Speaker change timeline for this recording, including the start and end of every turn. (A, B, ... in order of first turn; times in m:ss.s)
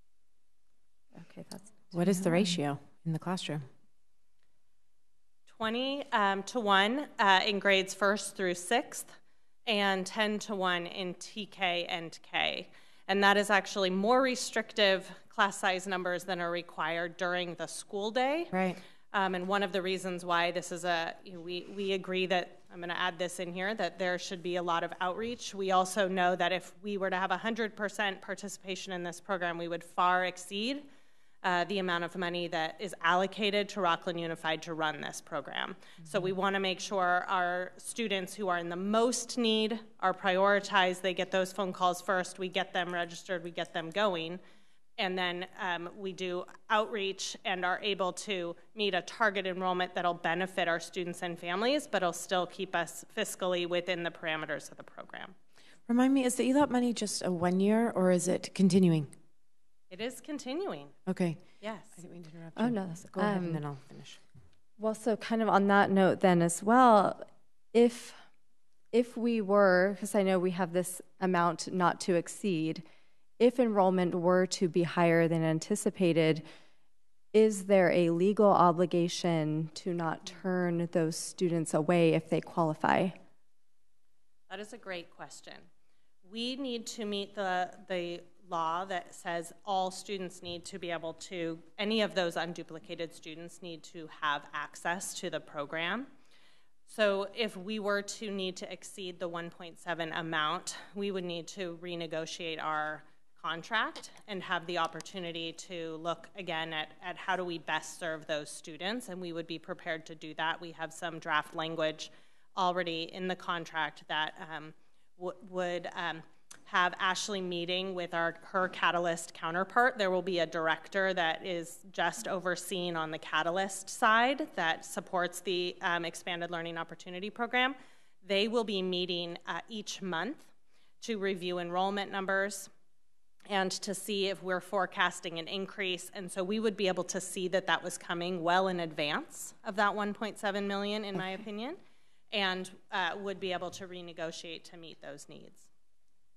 0:01.2-0:02.6 A
0:01.9-0:03.7 B
0:05.5-0:09.1 C
0:09.6-0:18.6 C
0:18.5-0:18.8 B
0:19.1-0:30.8 C
0:31.4-0:44.4 C
0:45.0-0:55.4 C
0:55.9-0:59.1 B
0:59.9-1:01.0 C
1:01.1-1:04.2 B
1:01.6-1:01.9 C
1:02.6-1:03.6 A
1:04.8-1:08.2 A
1:08.9-1:12.8 A
1:13.4-1:16.4 A
1:17.3-1:23.2 A
1:24.5-1:25.6 C
1:26.2-1:36.1 C
1:36.9-2:10.5 C
2:11.0-2:12.7 C
2:13.5-2:21.8 C
2:22.3-2:25.7 C